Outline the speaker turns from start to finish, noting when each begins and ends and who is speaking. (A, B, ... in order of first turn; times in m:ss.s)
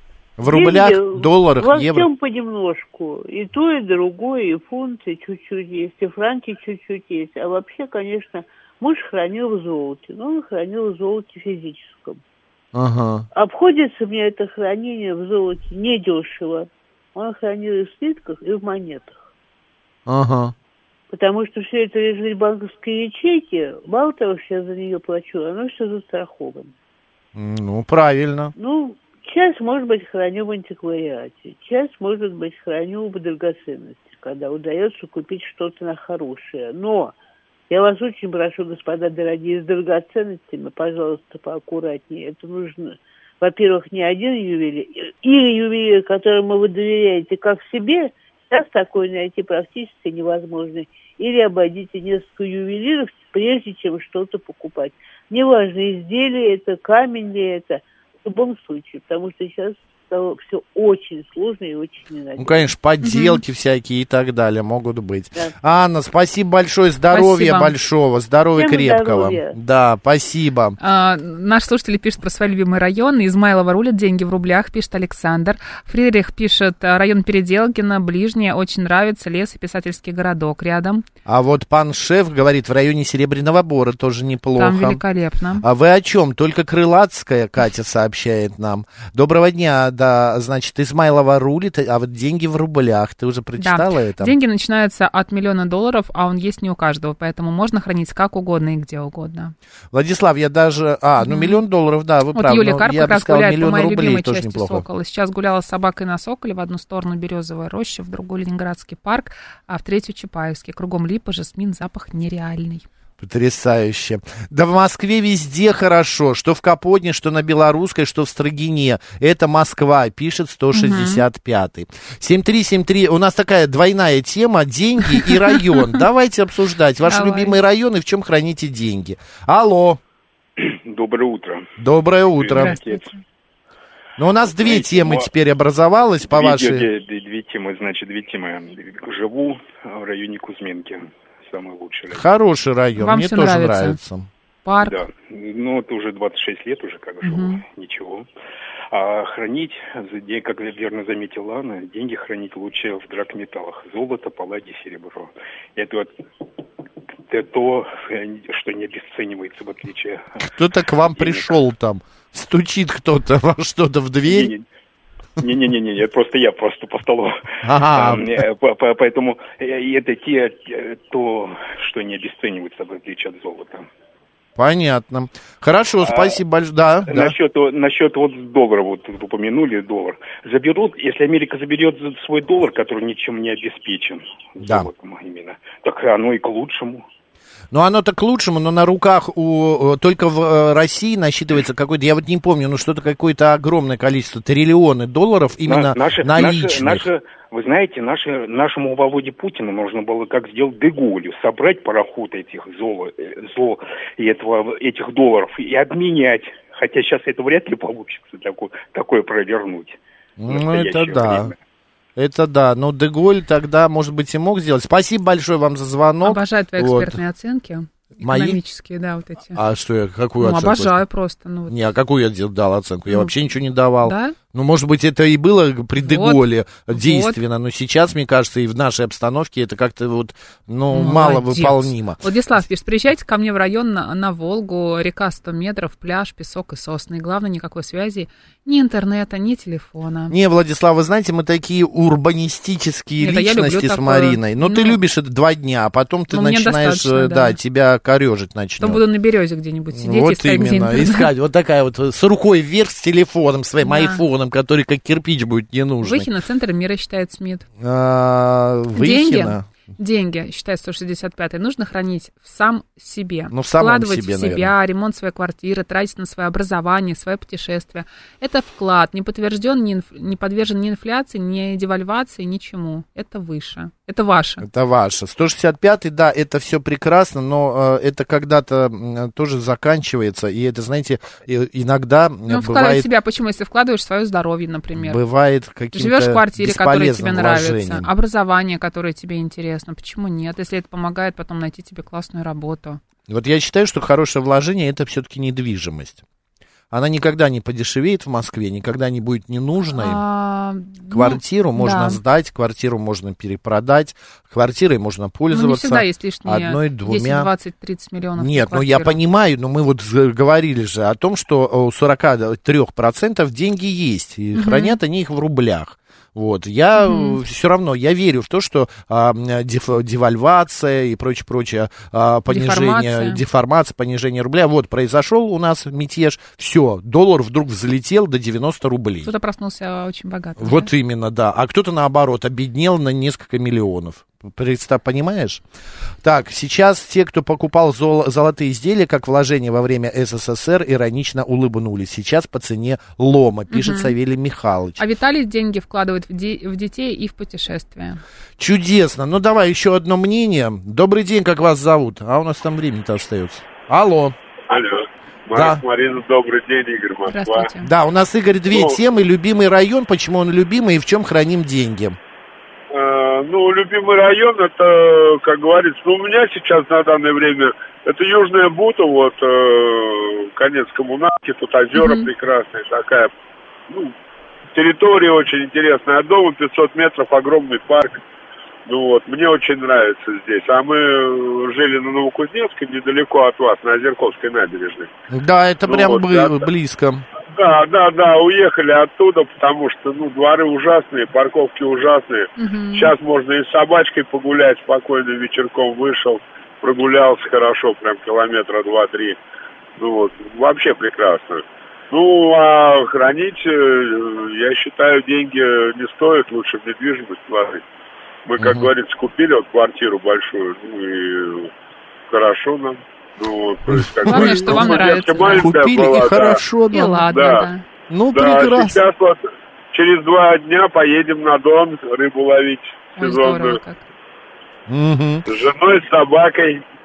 0:00.4-0:02.1 A
0:00.4-0:12.2 B
0:12.7-0:13.2 A
0:13.3-0:19.2 B
0:20.0-0:20.5 A
0:21.1-0:26.7 B
0:27.3-0:28.5 A
0:28.6-0:37.1 B
0:37.7-1:02.7 B
1:02.4-1:10.8 A
1:03.0-1:03.4 C
1:07.1-1:07.7 C
1:08.6-1:09.6 B
1:10.8-1:21.0 C
1:21.2-1:25.0 A
1:24.6-1:25.6 C
1:25.6-1:34.3 A
1:33.6-1:39.5 C
1:39.9-1:44.8 A
1:41.2-1:41.6 C
1:42.3-1:52.8 C
1:53.2-2:10.0 A
2:00.7-2:01.2 C
2:05.2-2:06.0 C
2:07.0-2:07.6 C
2:10.6-2:11.7 D
2:11.8-2:12.8 A
2:12.4-2:13.1 D
2:12.6-2:13.1 C
2:14.2-2:16.8 A
2:14.4-2:15.3 D
2:16.2-2:22.3 D
2:22.1-2:24.3 A
2:23.0-2:24.0 C
2:24.6-2:25.0 C
2:24.8-2:28.3 D
2:27.2-2:27.6 C
2:28.9-2:36.1 D
2:37.3-2:40.4 D
2:40.5-2:44.5 A
2:41.1-2:41.6 D
2:44.2-2:44.6 D
2:45.4-2:53.9 D
2:47.6-2:48.3 A
2:54.6-2:57.3 A
2:56.0-2:56.4 D
2:57.1-3:07.0 D
3:04.6-3:04.9 A
3:07.7-3:17.0 A
3:15.6-3:31.6 D
3:30.4-3:31.5 A
3:32.2-3:37.2 A
3:36.2-3:39.6 C
3:38.2-3:38.6 A
3:39.5-3:41.0 A
3:40.4-3:41.8 C
3:41.7-3:52.2 A
3:43.1-3:43.4 C
3:44.0-3:44.4 C
3:46.0-3:47.4 C
3:50.9-4:00.3 C
4:00.3-4:09.0 A
4:03.2-4:05.0 C
4:06.3-4:07.6 C
4:08.8-4:11.3 C
4:09.9-4:16.3 A
4:13.8-4:14.2 C
4:16.0-4:17.6 C
4:17.8-4:19.7 A
4:18.9-4:34.6 C
4:23.5-4:24.7 A
4:34.6-4:43.1 A
4:42.5-4:45.2 C
4:45.0-4:48.1 A
4:45.9-4:53.0 C
4:53.3-4:56.2 A
4:56.9-5:00.2 A
5:00.0-5:02.2 C
5:01.1-5:07.5 A
5:05.5-5:09.2 C
5:08.4-5:29.3 A
5:14.5-5:15.0 C
5:17.0-5:17.4 C
5:22.5-5:23.4 C
5:29.2-5:30.9 C
5:30.6-5:35.6 A
5:36.2-5:45.0 A
5:43.7-5:44.1 C
5:45.0-5:48.2 C
5:48.6-5:54.4 A
5:54.7-5:57.7 E
5:55.5-5:55.8 A
5:57.3-5:57.9 C
5:57.8-6:02.2 A
5:58.7-5:59.0 E
6:02.9-6:13.3 E
6:11.9-6:12.3 C
6:13.9-6:14.1 E
6:14.7-6:18.2 E
6:18.8-6:25.1 E
6:25.3-6:27.2 A
6:25.9-6:26.6 E
6:27.5-6:39.4 E
6:32.6-6:33.1 C
6:40.0-6:47.8 E
6:48.4-6:51.7 E
6:48.6-6:48.9 A
6:52.3-6:56.6 E
6:53.9-6:57.3 A
6:54.2-6:55.7 C
6:56.9-6:57.8 C
6:57.3-6:57.7 E
6:58.1-6:59.0 A
6:58.3-6:59.4 E
6:59.9-7:03.8 E
7:03.2-7:04.0 C
7:04.9-7:05.5 A
7:05.5-7:06.8 E